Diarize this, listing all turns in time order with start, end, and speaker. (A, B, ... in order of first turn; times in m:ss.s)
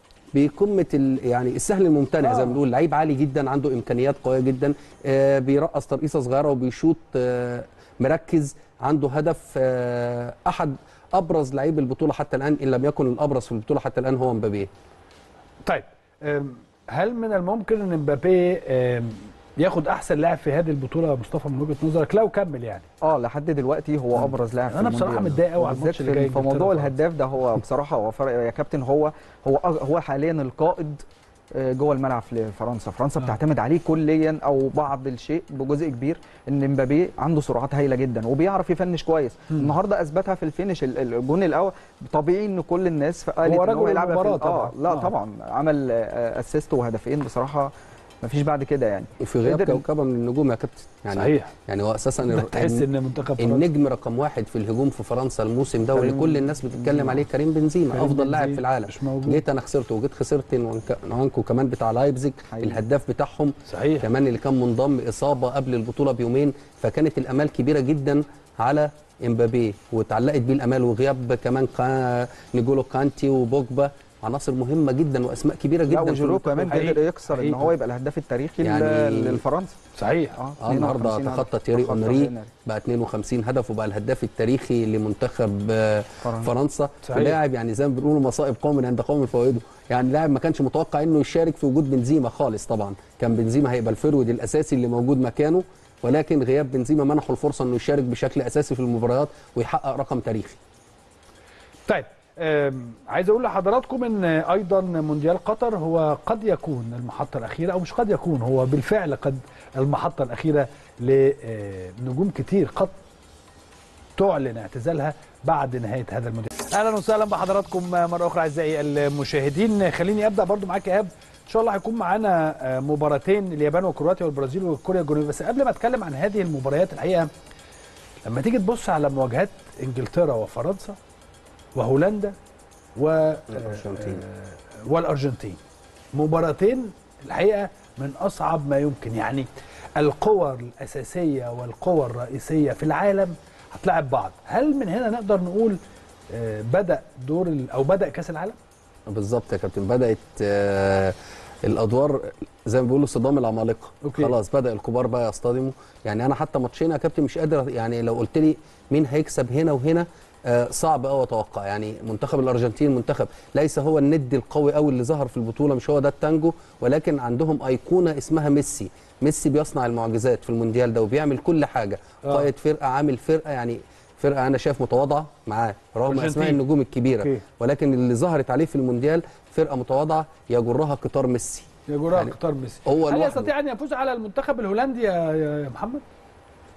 0:00.3-0:14.7 A
0:02.2-0:02.6 B
0:15.6-0:22.9 B
0:23.0-0:47.7 C
0:24.2-0:26.9 B
0:43.4-0:45.1 B
0:48.2-0:49.8 C
0:49.2-0:52.8 A
0:51.2-0:51.5 B
0:52.3-0:53.6 B
0:53.4-1:16.8 A
0:55.9-0:57.2 C
0:57.9-0:59.4 B
1:02.5-1:02.8 C
1:03.7-1:04.1 B
1:15.9-1:19.8 C
1:16.7-1:17.7 B
1:18.6-1:19.4 A
1:20.0-1:20.4 B
1:20.3-1:22.5 C
1:20.6-1:40.6 A
1:26.2-1:26.5 C
1:27.0-1:27.4 B
1:41.9-1:52.9 B
1:54.2-2:07.3 B
2:08.2-2:11.0 B
2:11.7-2:12.3 B
2:13.0-2:15.6 B
2:13.5-2:14.2 A
2:16.1-2:25.8 B
2:26.3-2:28.6 B
2:29.1-3:02.3 A
2:34.0-2:34.3 B
2:52.2-2:52.5 B
2:56.1-2:56.6 B
3:01.9-3:06.0 B
3:02.8-3:03.5 A